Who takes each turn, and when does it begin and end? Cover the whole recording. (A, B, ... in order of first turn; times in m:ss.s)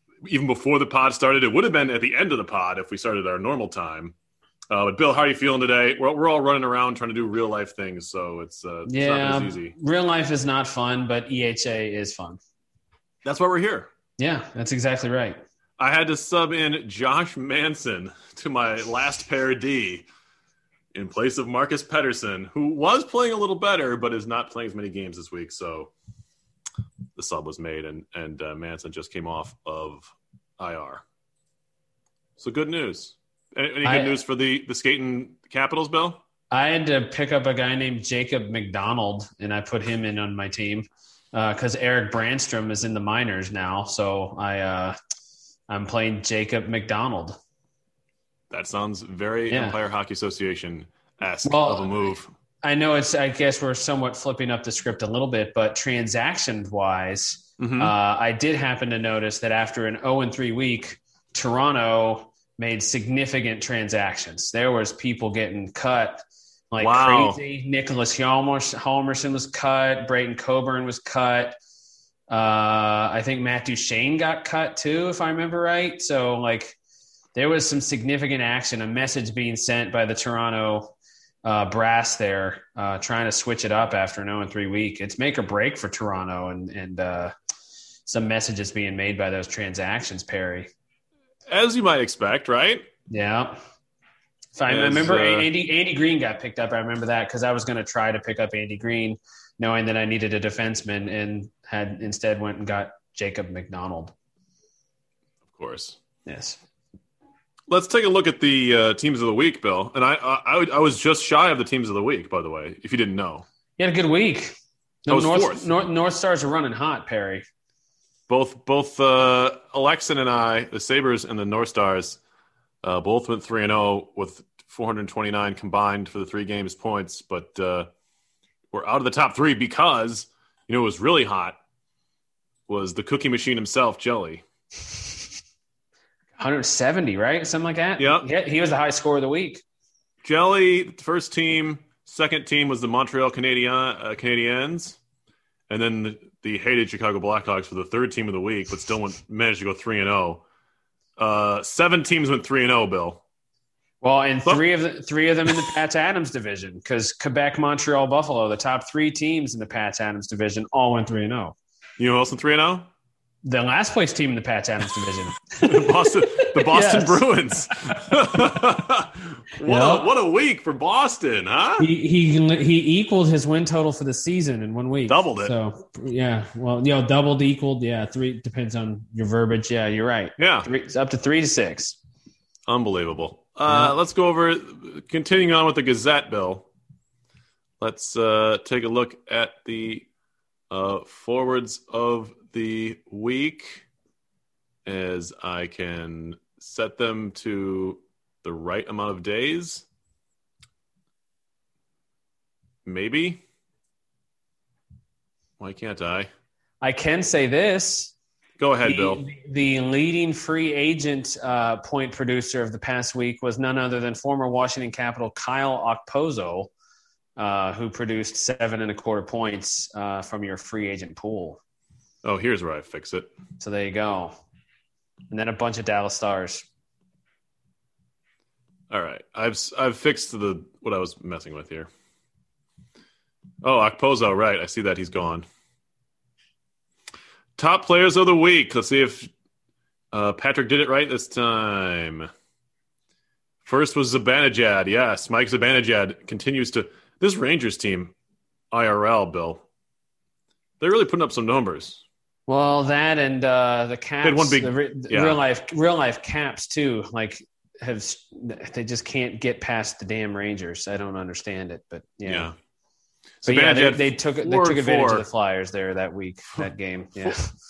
0:00.2-0:04.1 A
0:04.7-0:09.7 A
0:08.8-0:12.4 B
0:13.2-0:13.9 A
0:14.2-0:15.4 B
0:15.8-0:20.1 A
0:20.9-0:25.9 A
0:27.2-0:31.0 A
0:32.4-0:36.2 A
0:33.8-0:34.2 B
0:36.5-0:45.0 B
0:45.7-0:47.4 B
0:48.5-0:52.3 A
0:49.5-0:49.8 B
0:51.4-0:52.1 B
0:52.6-1:11.6 B
0:57.6-0:57.9 A
1:06.8-1:07.4 A
1:12.3-1:16.8 B
1:17.3-1:27.3 B
1:28.1-1:30.7 B
1:31.5-1:32.9 A
1:33.1-1:33.6 B
1:34.6-1:44.1 B
1:34.7-1:35.5 A
1:45.5-1:46.0 A
1:46.2-1:46.6 B
1:47.7-1:53.4 A
1:53.8-1:54.5 B
1:55.0-1:57.4 B
1:55.1-1:55.7 A
1:58.3-2:02.2 A
2:02.8-2:07.9 A
2:08.7-2:11.6 A
2:12.7-2:14.4 A
2:16.4-2:19.6 B
2:18.0-2:18.3 A
2:20.2-2:25.0 A
2:25.7-2:30.4 A
2:31.2-2:33.2 A
2:34.0-2:41.6 B
2:42.0-2:42.9 A
2:43.4-2:47.7 B
2:45.6-2:51.9 A
2:49.6-2:50.1 B
2:51.8-3:02.0 B
2:55.1-2:55.5 A
3:00.4-3:00.7 A
3:02.7-3:06.7 A
3:03.7-3:03.9 B
3:07.8-3:10.1 A
3:10.7-3:13.8 A
3:14.8-3:19.8 A
3:22.8-3:23.4 A
3:25.6-3:26.3 A
3:26.8-3:28.1 B
3:28.6-3:29.2 A
3:28.8-3:36.7 B
3:37.4-3:41.6 B
3:42.2-3:43.3 A
3:43.6-3:44.3 B
3:45.3-3:46.7 B
3:48.9-3:51.9 A
3:53.6-3:55.4 A
3:57.6-3:59.3 A
4:00.1-4:02.3 A
4:03.6-4:08.1 A
4:08.7-4:09.6 A
4:10.8-4:12.0 A
4:12.5-4:22.5 B
4:14.2-4:15.4 A
4:22.3-4:22.5 A
4:23.4-4:25.2 A
4:23.4-4:27.5 B